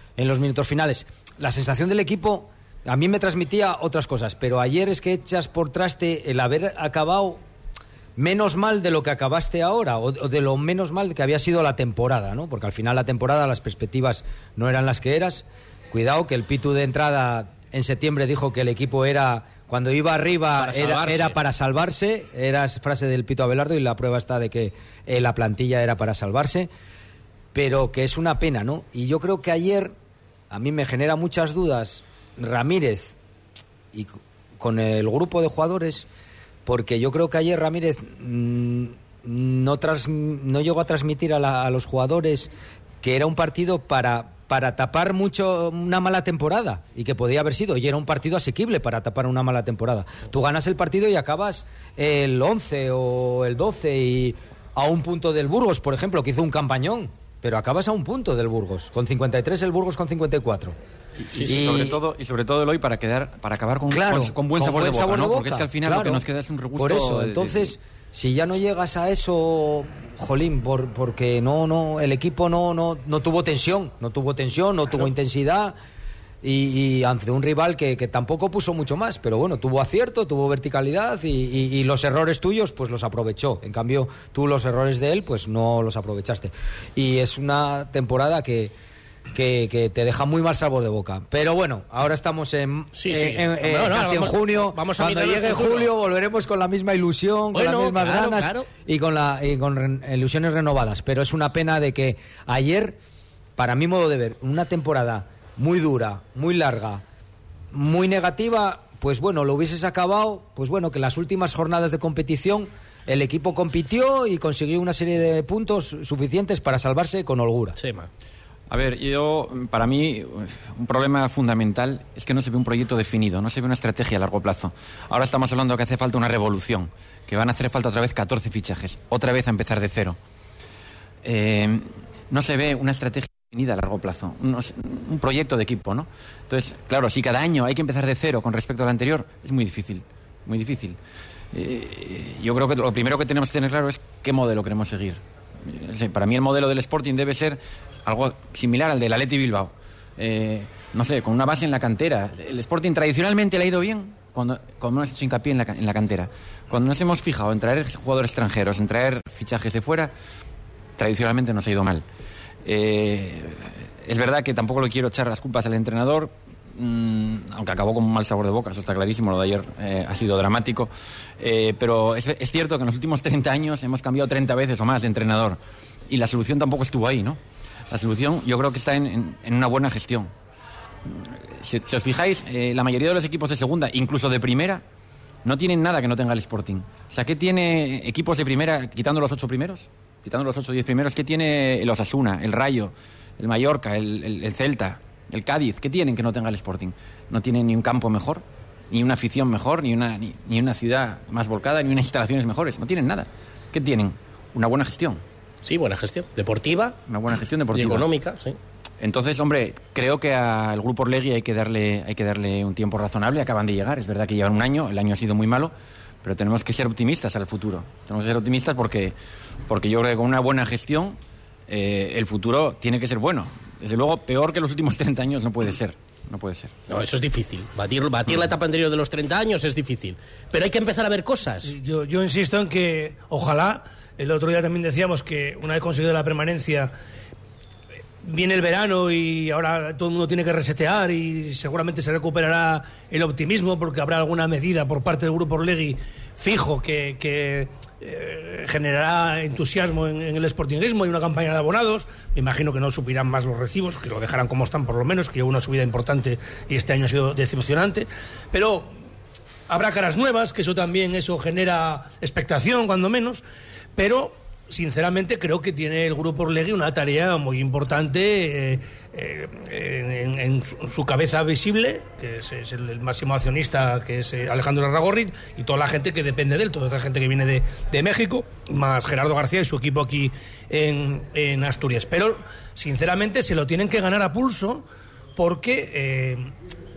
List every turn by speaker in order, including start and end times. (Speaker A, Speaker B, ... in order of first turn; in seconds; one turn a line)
Speaker A: 0.2-7.4
Speaker A: 8.2-26.7
Speaker B: 20.6-21.4
Speaker A: 27.5-29.9
Speaker A: 30.5-33.1
Speaker A: 33.9-36.1
Speaker A: 36.6-42.5
Speaker A: 43.0-60.8
Speaker C: 61.3-67.7
Speaker B: 61.3-61.6
Speaker A: 61.4-62.0
Speaker A: 63.9-66.2
Speaker A: 66.8-75.7
Speaker A: 76.4-88.7
Speaker A: 89.3-103.0
Speaker B: 92.9-95.9
Speaker B: 97.5-98.7
Speaker A: 103.6-107.0
Speaker A: 107.7-117.8
Speaker B: 117.8-118.1
Speaker C: 118.7-130.2
Speaker C: 131.2-141.0
Speaker C: 141.5-160.1
Speaker C: 161.0-162.0
Speaker C: 162.6-175.6
Speaker C: 176.1-177.4
Speaker C: 177.9-180.3
Speaker C: 181.1-184.8
Speaker C: 185.4-205.2
Speaker B: 205.6-207.0
Speaker C: 207.1-208.1
Speaker B: 207.7-208.6
Speaker C: 209.0-215.7
Speaker C: 216.2-219.1
Speaker C: 219.7-221.2
Speaker C: 221.7-226.7
Speaker B: 226.9-231.7
Speaker D: 231.6-236.9
Speaker D: 238.2-258.9
Speaker D: 259.7-263.4
Speaker D: 263.9-284.8
Speaker D: 285.4-286.5